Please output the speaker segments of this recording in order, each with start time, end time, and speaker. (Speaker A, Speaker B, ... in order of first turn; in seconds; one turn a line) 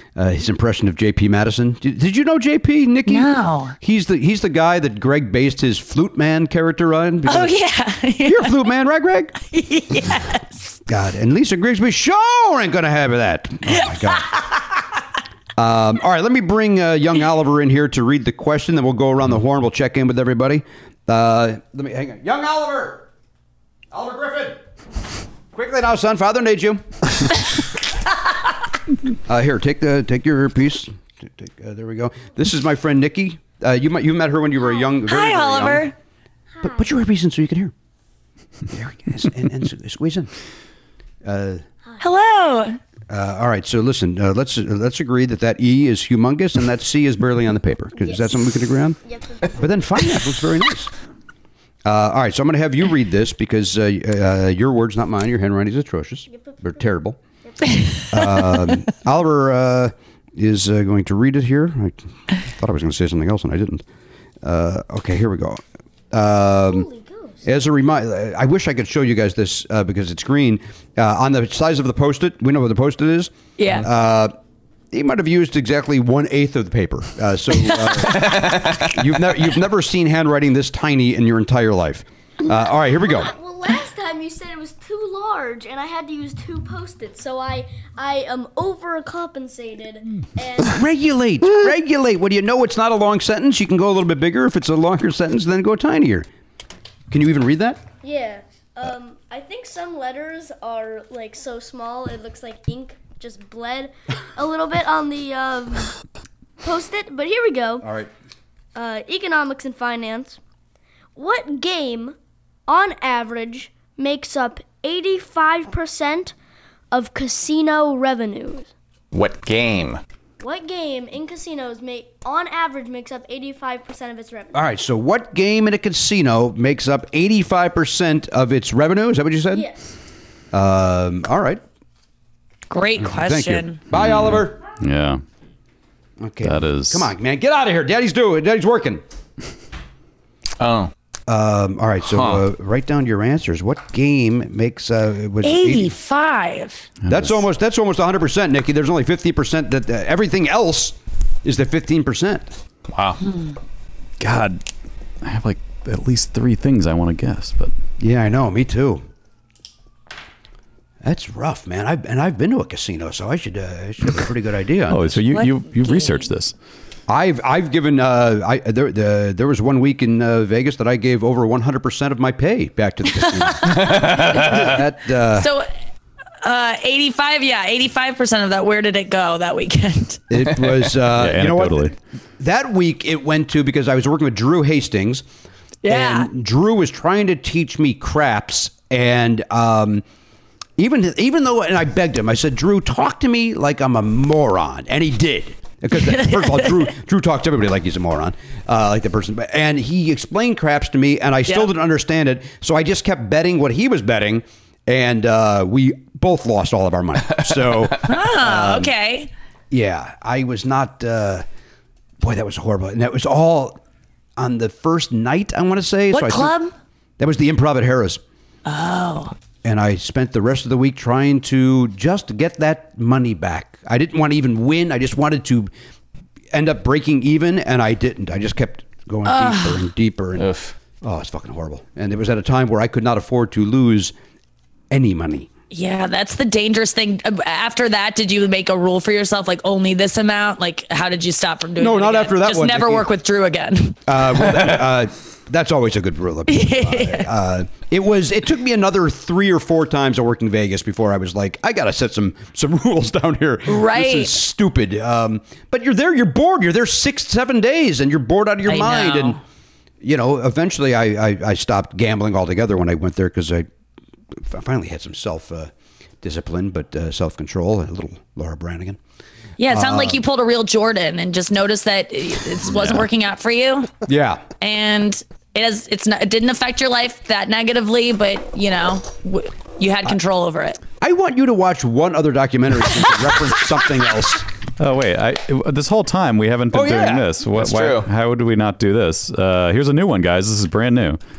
Speaker A: 0.1-7.5
Speaker B: 3.1-3.7
Speaker B: 7.2-8.6
Speaker A: 8.2-9.3
Speaker B: 9.4-10.5
Speaker A: 10.9-14.3
Speaker B: 13.8-14.4
Speaker A: 15.6-23.1
Speaker A: 23.9-24.6
Speaker A: 25.5-26.8
Speaker A: 29.3-35.9
Speaker C: 34.6-34.9
Speaker B: 35.0-35.9
Speaker C: 36.6-36.9
Speaker A: 36.6-37.7
Speaker A: 38.7-40.3
Speaker A: 41.2-41.6
Speaker B: 42.0-42.8
Speaker A: 43.1-49.0
Speaker C: 48.0-49.7
Speaker A: 49.5-50.9
Speaker A: 51.9-57.2
Speaker C: 56.3-56.9
Speaker C: 57.4-58.0
Speaker B: 57.7-58.0
Speaker A: 58.1-63.8
Speaker A: 64.4-66.9
Speaker C: 66.5-67.4
Speaker A: 67.4-74.3
Speaker B: 73.6-73.9
Speaker A: 74.9-83.3
Speaker B: 77.7-78.3
Speaker D: 78.1-78.9
Speaker C: 82.5-90.8
Speaker A: 90.7-96.3
Speaker A: 97.1-97.8
Speaker C: 98.0-106.0
Speaker C: 106.6-107.9
Speaker A: 107.8-108.1
Speaker C: 108.7-110.4
Speaker C: 111.2-112.2
Speaker C: 112.7-116.3
Speaker C: 116.9-118.7
Speaker D: 119.1-120.0
Speaker C: 120.4-124.6
Speaker A: 124.5-129.7
Speaker A: 130.5-131.6
Speaker B: 132.7-133.8
Speaker A: 133.0-134.6
Speaker E: 133.9-135.2
Speaker A: 136.2-139.0
Speaker E: 136.4-137.1
Speaker D: 140.6-140.9
Speaker A: 141.3-145.9
Speaker D: 142.1-142.4
Speaker B: 145.4-146.9
Speaker E: 147.0-147.4
Speaker A: 147.1-152.5
Speaker D: 152.9-153.2
Speaker B: 153.2-153.5
Speaker E: 154.2-154.6
Speaker E: 155.2-157.7
Speaker A: 158.0-159.0
Speaker A: 161.0-165.3
Speaker E: 164.9-166.5
Speaker B: 165.3-166.3
Speaker A: 167.1-175.5
Speaker B: 173.0-174.7
Speaker D: 173.7-174.7
Speaker B: 175.3-175.7
Speaker B: 176.4-180.2
Speaker A: 180.3-185.2
Speaker E: 181.1-181.9
Speaker B: 185.8-186.3
Speaker A: 185.8-190.0
Speaker A: 190.8-208.9
Speaker B: 195.9-196.9
Speaker B: 208.1-209.3
Speaker A: 209.7-211.4
Speaker A: 212.2-213.8
Speaker A: 214.4-216.5
Speaker B: 216.1-216.7
Speaker A: 217.2-218.2
Speaker B: 218.7-219.3
Speaker A: 219.6-225.7
Speaker A: 226.5-230.5
Speaker B: 229.2-229.8
Speaker D: 230.4-230.7
Speaker A: 231.0-234.1
Speaker A: 234.9-235.5
Speaker B: 235.7-244.0
Speaker A: 241.8-243.1
Speaker A: 244.1-259.4
Speaker B: 246.5-247.3
Speaker B: 253.7-254.4
Speaker B: 258.7-259.4
Speaker A: 260.0-263.7
Speaker A: 264.3-265.7
Speaker A: 266.2-269.0
Speaker B: 269.6-273.9
Speaker A: 269.7-270.2
Speaker E: 272.7-273.0
Speaker A: 274.1-274.4
Speaker B: 274.6-280.8
Speaker A: 281.0-284.4
Speaker E: 284.8-291.2
Speaker A: 286.7-287.3
Speaker D: 287.6-288.1